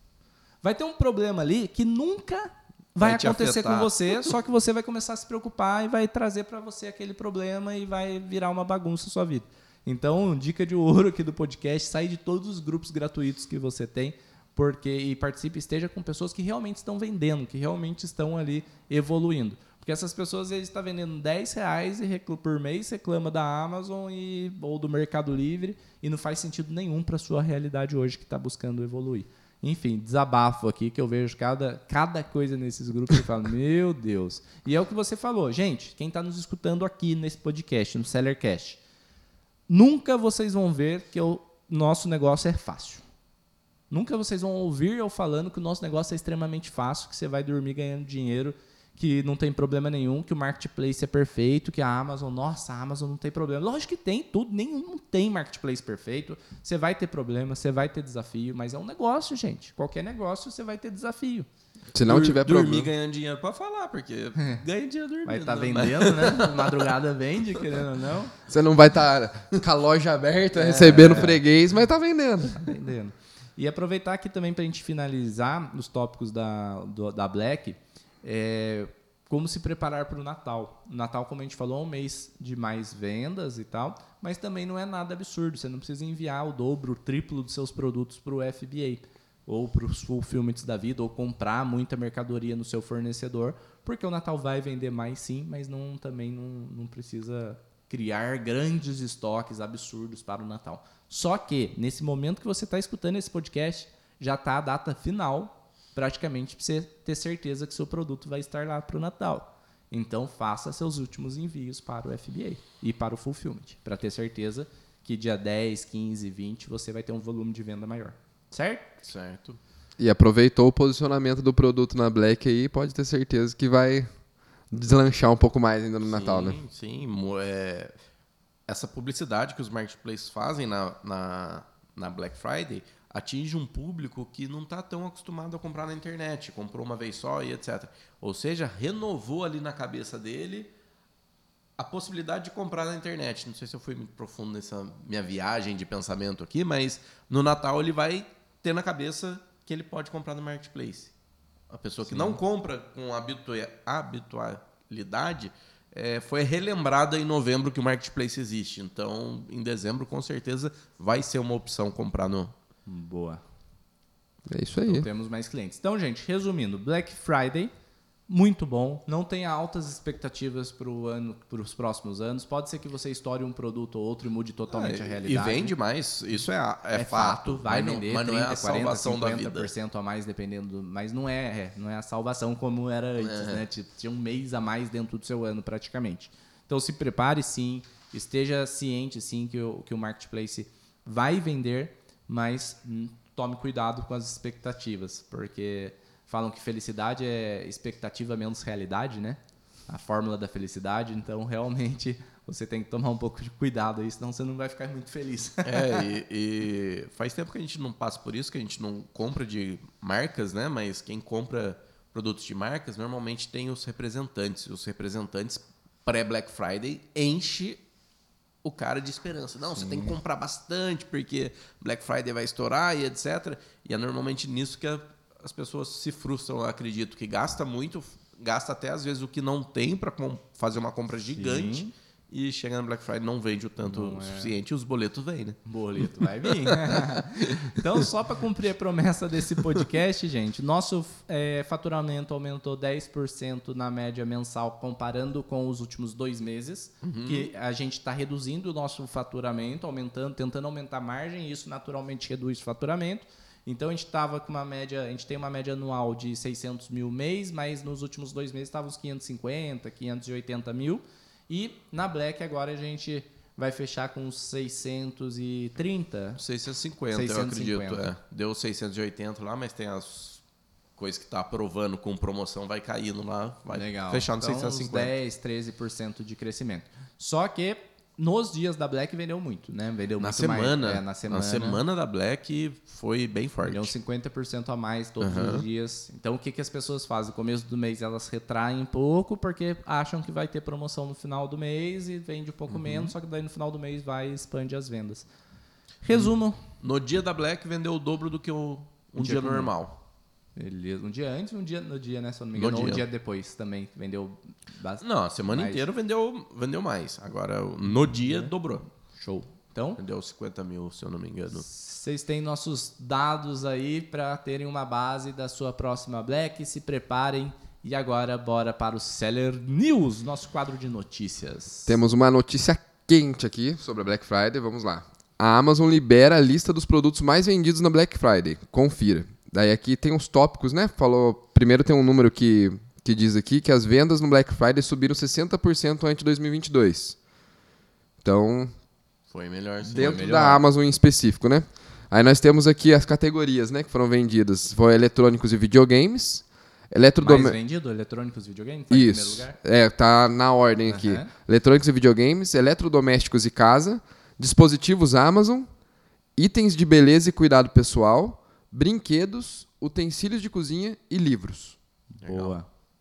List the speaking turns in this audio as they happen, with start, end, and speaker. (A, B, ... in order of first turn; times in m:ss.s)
0:00.6-0:38.8 A
0:03.0-0:04.3 B
0:39.7-0:43.0 A
0:43.9-1:01.5 A
1:01.9-1:02.9 C
1:02.0-1:06.9 B
1:05.2-1:08.3 A
1:08.5-1:12.6 C
1:10.6-1:11.4 A
1:10.6-1:11.3 B
1:12.5-1:59.0 A
1:59.0-1:59.6 B
2:00.0-2:04.1 C
2:04.7-2:06.6 C
2:06.0-2:07.9 B
2:08.7-2:20.7 B
2:21.8-2:31.1 B
2:31.7-2:42.5 B
2:32.1-2:32.4 A
2:42.9-2:43.4 A
2:44.5-2:45.1 C
2:44.8-2:47.7 A
2:48.3-2:55.7 A
2:54.7-2:59.7 B
2:56.9-3:26.0 A
3:03.2-3:03.6 B
3:25.6-3:37.8 B
3:38.6-3:57.8 B
3:39.8-3:40.1 A
3:51.3-3:51.9 A
3:53.8-3:54.5 A
3:55.6-4:26.4 A
4:07.0-4:07.5 B
4:26.4-4:30.4 B
4:27.1-4:28.1 A
4:31.0-4:35.1 B
4:33.7-4:41.8 A
4:40.2-4:43.9 B
4:43.6-4:55.3 A
4:45.2-4:45.6 B
4:52.7-4:53.1 B
4:56.0-4:56.6 A
4:56.1-4:59.9 B
4:59.2-4:59.7 A
5:00.6-5:05.8 A
5:02.5-5:03.0 B
5:05.0-5:08.8 B
5:09.1-5:10.0 A
5:10.0-5:11.6 B
5:11.6-5:21.9 A
5:21.9-5:37.2 C
5:38.2-5:38.7 C
5:39.3-5:40.4 B
5:39.9-5:47.6 C
5:39.9-5:40.6 A
5:47.2-5:49.6 A
5:48.9-5:55.7 C
5:50.9-5:51.3 A
5:56.4-6:01.8 C
6:02.2-6:02.7 A
6:02.2-6:02.6 B